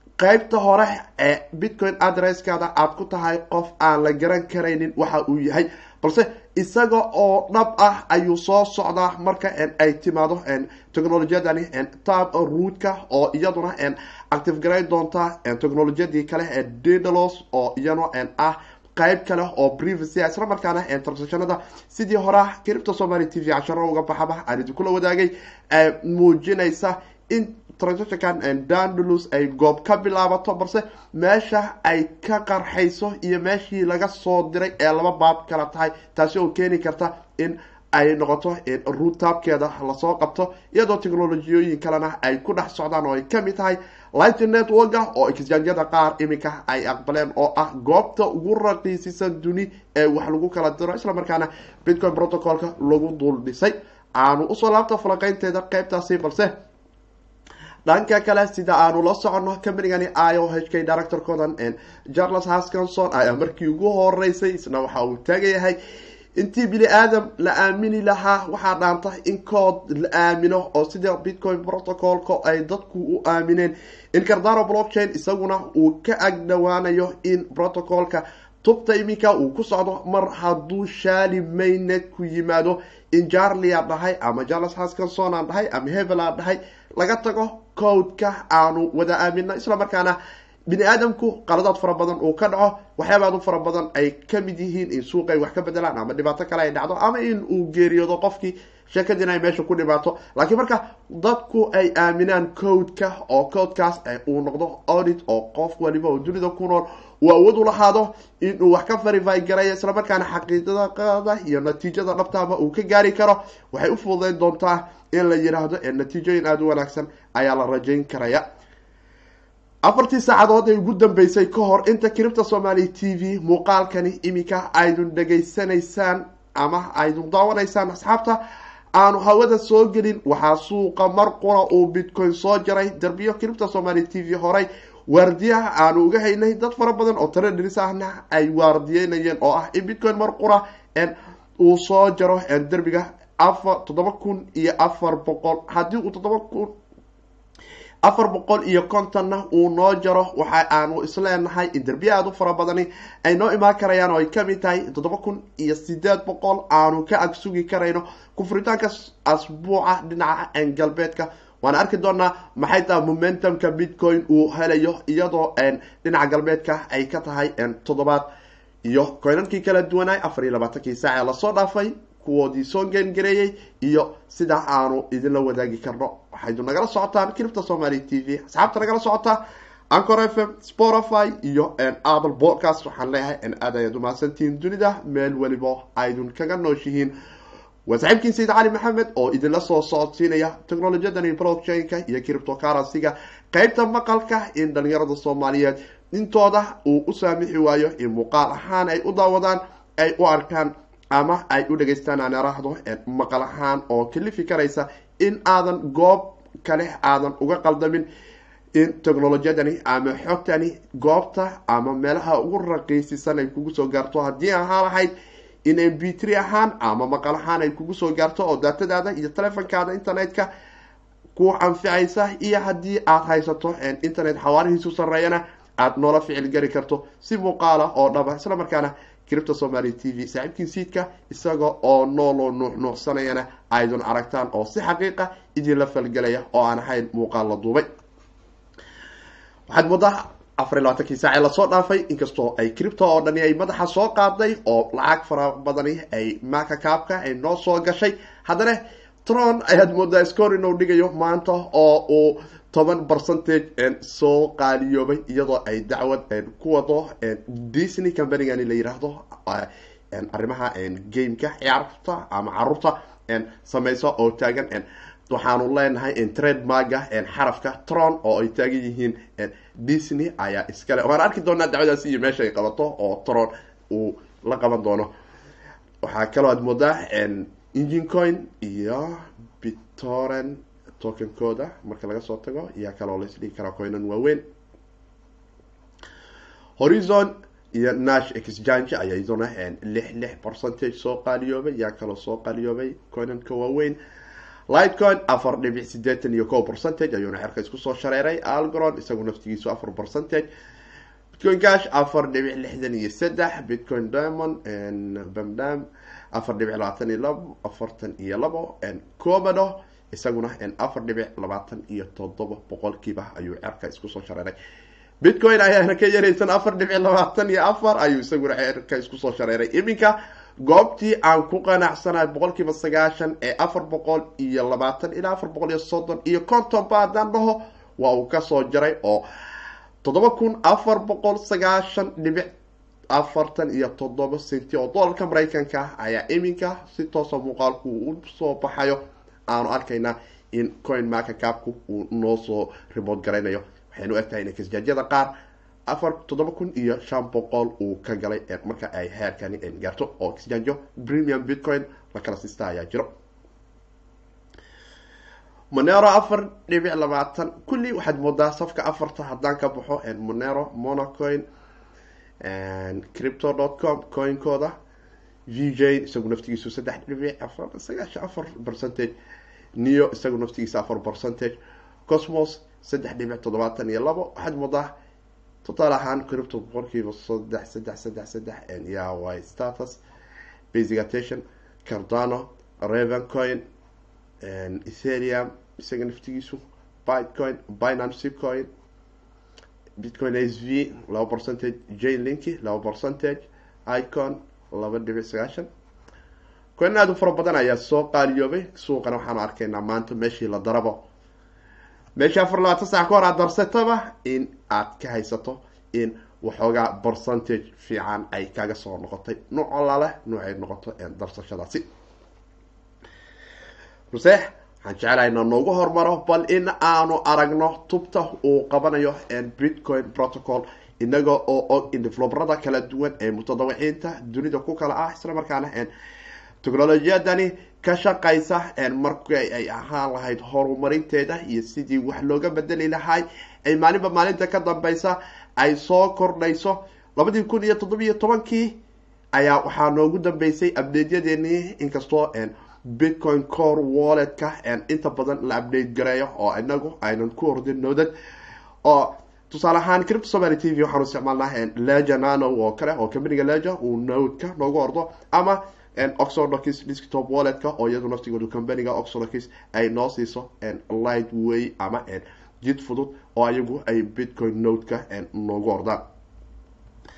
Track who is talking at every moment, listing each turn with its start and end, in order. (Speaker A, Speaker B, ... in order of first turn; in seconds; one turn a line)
Speaker A: 0.2-56.5
Speaker A: 57.9-65.8
Speaker A: 66.3-90.2
Speaker A: 90.7-118.4
Speaker A: 119.8-128.4
Speaker A: 128.9-146.7
Speaker A: 148.0-168.3
Speaker A: 168.8-187.1
Speaker A: 187.8-208.1
Speaker A: 208.7-215.1
Speaker A: 215.6-220.5
Speaker A: 221.3-237.8
Speaker A: 239.7-275.1
Speaker A: 276.0-284.4
Speaker A: 286.8-294.0
Speaker A: 294.7-300.5
Speaker A: 301.3-314.6
Speaker A: 315.2-329.2
Speaker A: 330.0-332.5
Speaker A: 333.1-345.3
Speaker A: 345.9-353.1
Speaker A: 355.7-361.5
Speaker A: 362.4-364.8
Speaker A: 365.5-369.1
Speaker A: 369.8-374.9
Speaker A: 375.6-380.0
Speaker A: 380.7-383.6
Speaker A: 384.4-388.7
Speaker A: 390.0-395.7
Speaker A: 396.8-401.0
Speaker A: 402.1-411.9
Speaker A: 414.1-425.9
Speaker A: 426.6-438.8
Speaker A: 439.3-448.1
Speaker A: 448.8-466.0